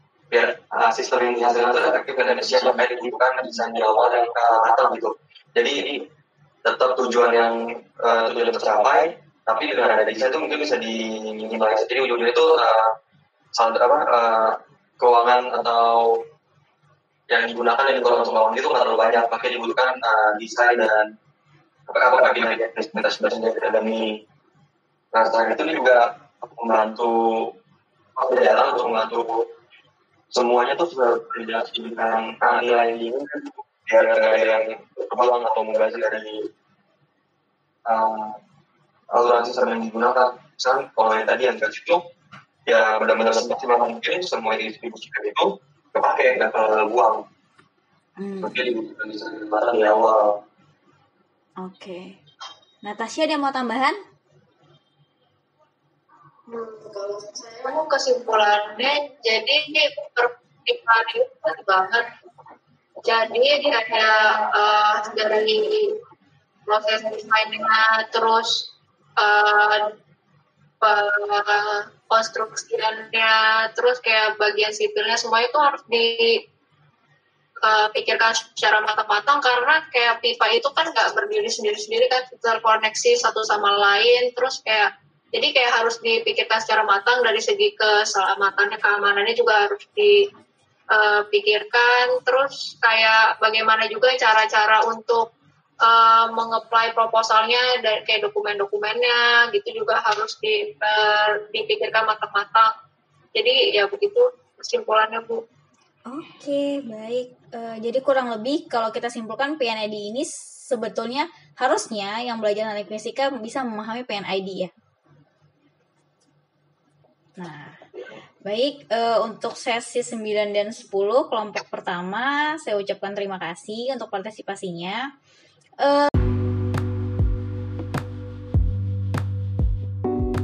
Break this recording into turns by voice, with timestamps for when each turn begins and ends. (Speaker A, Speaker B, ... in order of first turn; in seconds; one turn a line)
Speaker A: 0.3-6.0
Speaker A: 6.7-12.9
Speaker A: 13.6-16.2
Speaker A: 17.3-21.1
Speaker A: 21.9-24.2
Speaker A: 25.1-27.5
Speaker A: 28.2-29.4
Speaker A: 30.3-36.5
Speaker A: 37.9-38.4
Speaker A: 39.1-42.0
Speaker A: 42.7-47.2
Speaker B: 48.2-48.7
Speaker A: 48.4-50.4
Speaker B: 51.6-52.2
Speaker B: 52.8-54.0
Speaker C: 56.5-62.1
Speaker C: 63.0-66.0
Speaker C: 66.7-69.9
Speaker C: 70.8-76.4
Speaker C: 77.6-90.2
Speaker C: 90.9-95.3
Speaker C: 95.8-102.7
Speaker C: 103.3-105.4
Speaker B: 106.1-114.7
Speaker B: 117.4-117.8
Speaker B: 118.5-125.0
Speaker B: 125.8-126.1